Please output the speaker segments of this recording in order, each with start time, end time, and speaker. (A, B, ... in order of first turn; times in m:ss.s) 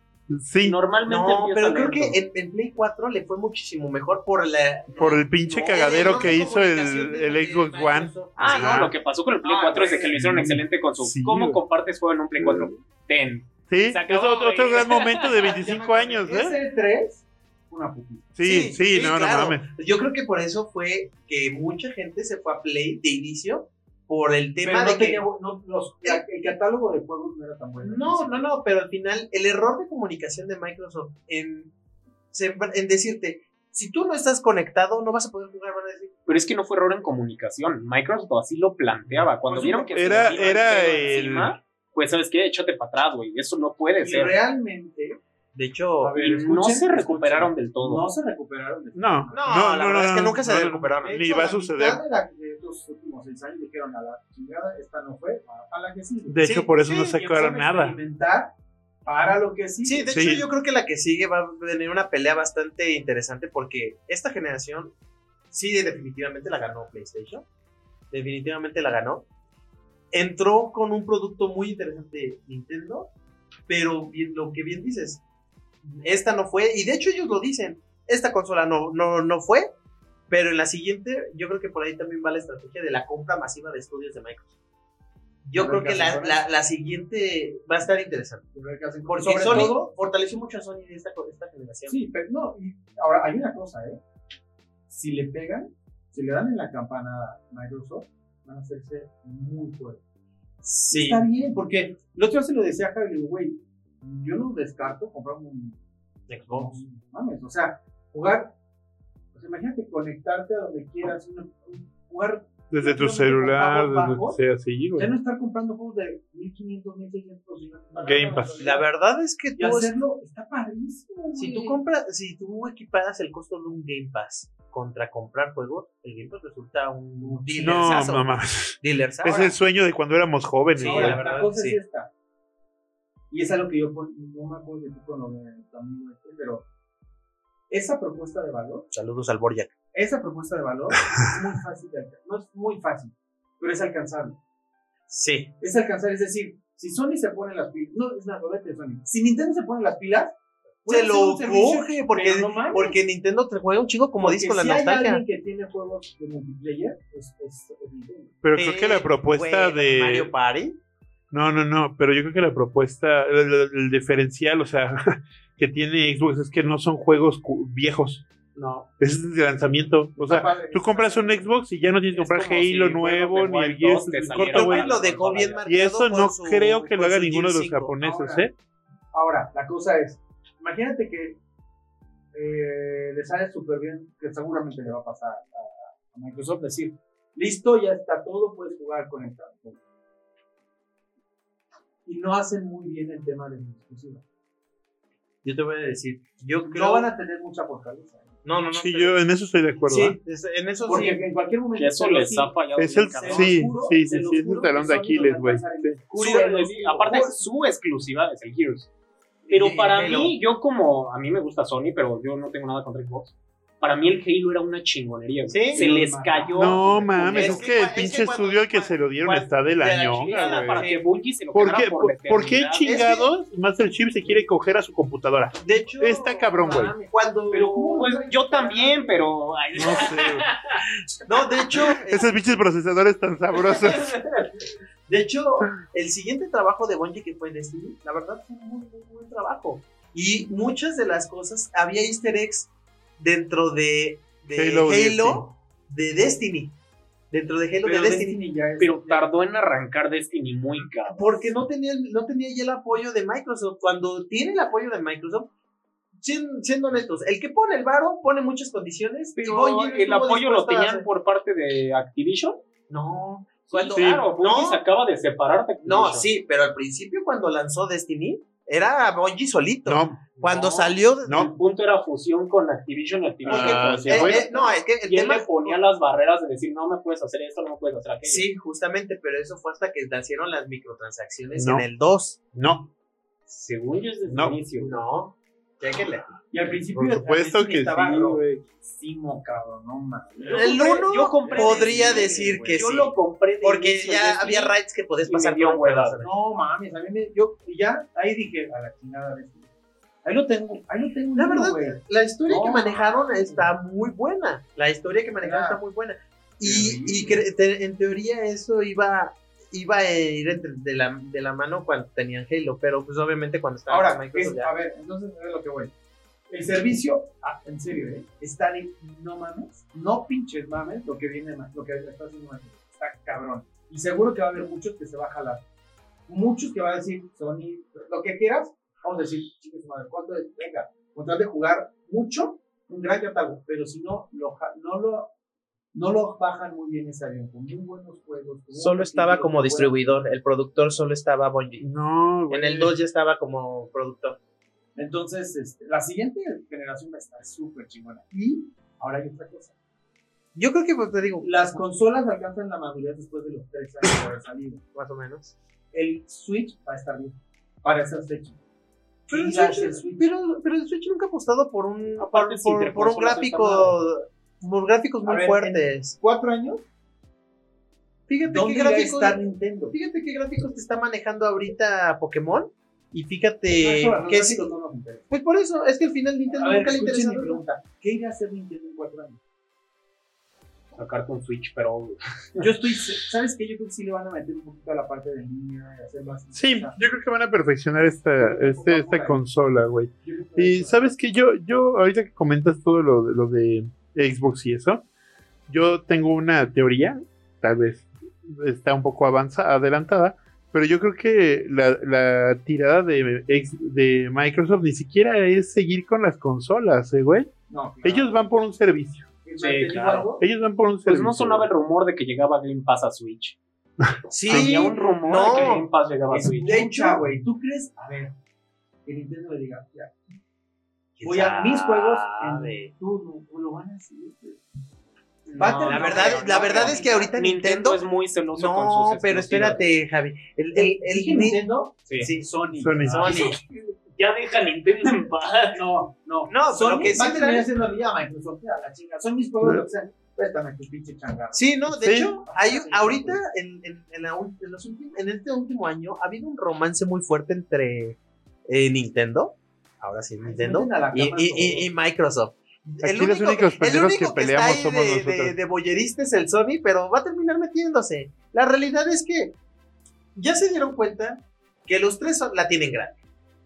0:00.3-0:00.8 A
0:00.6-0:02.2 B
0:01.1-0:10.1 C
0:05.0-0:08.9 A
0:08.4-0:15.5 B
0:09.7-0:10.0 D
0:10.1-0:11.6 A
0:12.4-0:12.7 A
0:13.7-0:16.6 A
0:15.4-0:18.3 D
0:18.4-0:19.7 A
0:18.4-0:25.2 C
0:24.6-0:28.5 D
0:27.8-0:31.7 C
0:32.3-0:36.1 C
0:36.3-0:44.4 B
0:39.4-0:41.2 D
0:39.9-0:41.6 A
0:44.0-0:45.2 D
0:45.5-0:46.2 C
0:46.0-0:49.7 D
0:46.2-0:48.1 B
0:49.0-0:52.0 A
0:49.3-0:51.5 C
0:51.0-0:58.5 D
0:56.3-0:58.0 A
0:56.4-0:57.1 C
0:59.0-1:00.3 D
0:59.8-1:04.9 C
1:00.1-1:00.4 A
1:05.5-1:07.4 C
1:08.1-1:09.2 C
1:10.1-1:13.1 C
1:13.7-1:15.2 C
1:15.8-1:19.7 C
1:20.3-1:24.5 C
1:25.4-1:28.4 C
1:25.6-1:26.4 D
1:28.5-1:29.9 D
1:29.1-1:32.0 C
1:31.9-1:34.0 D
1:34.9-1:40.0 D
1:40.6-1:41.2 C
1:40.9-1:45.8 D
1:46.3-1:46.8 C
1:46.5-1:48.6 D
1:49.3-1:54.4 D
1:52.7-1:55.1 A
1:55.0-1:58.9 D
1:58.0-1:58.6 A
1:58.6-2:00.0 C
1:59.6-2:01.8 D
2:01.4-2:09.5 C
2:07.2-2:08.0 D
2:07.6-2:11.2 A
2:09.2-2:09.5 D
2:10.8-2:11.8 C
2:10.8-2:12.1 D
2:10.9-2:11.4 B
2:13.3-2:16.7 D
2:17.7-2:18.9 D
2:18.9-2:19.7 C
2:19.9-2:24.4 D
2:25.1-2:25.5 C
2:25.6-2:33.0 D
2:30.9-2:35.2 C
2:34.2-2:38.4 D
2:38.4-2:40.3 A
2:38.6-2:40.8 C
2:41.3-2:48.3 A
2:48.6-2:48.9 B
2:49.0-2:54.9 A
2:50.2-2:51.5 D
2:52.1-2:55.6 B
2:54.4-2:57.9 C
2:55.7-2:58.5 A
2:58.0-2:58.5 D
2:59.1-3:01.4 D
3:02.3-3:09.8 D
3:12.1-3:14.2 D
3:15.4-3:17.1 C
3:16.6-3:18.4 D
3:18.4-3:19.2 C
3:18.7-3:20.2 A
3:19.9-3:21.2 C
3:20.9-3:22.6 D
3:21.8-3:23.7 B
3:22.8-3:26.0 A
3:23.2-3:27.4 D
3:26.1-3:28.9 B
3:26.2-3:26.5 C
3:29.5-3:30.3 C
3:29.5-3:36.9 B
3:35.5-3:35.8 C
3:35.7-3:37.7 D
3:36.6-3:40.9 A
3:37.3-3:41.0 C
3:40.2-3:43.1 B
3:41.5-3:47.0 A
3:42.8-3:43.3 C
3:45.6-3:46.2 C
3:45.8-3:49.3 D
3:47.1-3:48.0 C
3:47.9-3:50.8 B
3:49.8-3:50.5 A
3:51.3-3:52.6 C
3:52.0-3:54.2 A
3:53.7-3:54.4 B
3:55.1-4:06.8 C
4:04.5-4:05.5 A
4:07.3-4:08.4 C
4:07.8-4:09.3 D
4:08.8-4:11.4 B
4:11.1-4:15.5 C
4:16.2-4:21.0 C
4:19.4-4:22.6 B
4:22.9-4:24.8 C
4:23.7-4:26.3 B
4:23.9-4:24.3 A
4:25.8-4:31.5 C
4:29.9-4:30.3 A
4:30.4-4:38.5 B
4:31.2-4:31.5 A
4:33.4-4:35.8 C
4:33.5-4:34.4 A
4:38.2-4:42.4 C
4:41.6-4:41.9 A
4:42.5-4:42.9 A
4:43.5-4:45.0 B
4:44.3-4:44.6 A
4:44.8-4:46.3 C
4:46.5-4:52.8 D
4:46.9-4:48.6 A
4:50.4-4:56.2 B
4:50.5-4:56.3 C
4:56.2-4:59.7 D
5:00.2-5:03.7 D
5:01.4-5:14.7 C
5:05.4-5:05.8 D
5:06.6-5:07.4 D
5:13.9-5:15.9 D
5:16.5-5:25.6 D
5:26.3-5:35.3 D
5:35.9-5:40.3 D
5:38.7-5:41.9 C
5:41.8-5:43.0 A
5:42.5-5:44.4 C
5:45.0-5:49.7 D
5:50.6-5:51.8 C
5:51.4-5:54.8 D
5:54.9-5:55.6 C
5:55.9-5:58.6 D
5:59.3-6:00.3 D
5:59.3-6:06.2 C
6:02.2-6:04.0 B
6:05.2-6:06.8 D
6:08.3-6:14.7 C
6:08.4-6:10.0 D
6:13.7-6:15.3 D
6:15.3-6:17.6 C
6:16.5-6:19.4 D
6:20.9-6:22.7 B
6:22.6-6:27.0 D
6:26.6-6:35.0 A
6:28.4-6:29.5 D
6:30.1-6:31.1 D
6:35.7-6:47.5 A
6:47.7-6:48.4 D
6:48.0-6:49.3 A
6:49.4-6:50.4 D
6:49.6-6:50.3 B
6:50.4-6:51.7 A
6:51.1-6:53.6 B
6:54.0-6:54.7 A
6:54.3-6:55.9 C
6:54.5-6:56.9 B
6:56.3-6:58.4 D
6:56.6-6:57.2 C
6:59.1-7:00.2 D
7:01.2-7:02.9 C
7:01.2-7:04.6 D
7:05.5-7:09.8 B
7:05.6-7:07.3 D
7:05.7-7:08.0 C
7:08.6-7:11.6 C
7:10.7-7:13.6 D
7:12.2-7:12.5 C
7:12.8-7:13.5 A
7:13.1-7:15.8 B
7:13.1-7:13.6 C
7:15.7-7:23.4 D
7:16.5-7:17.7 C
7:21.5-7:39.6 C
7:22.0-7:22.4 A
7:30.4-7:31.9 D
7:33.0-7:35.6 A
7:40.4-7:43.2 C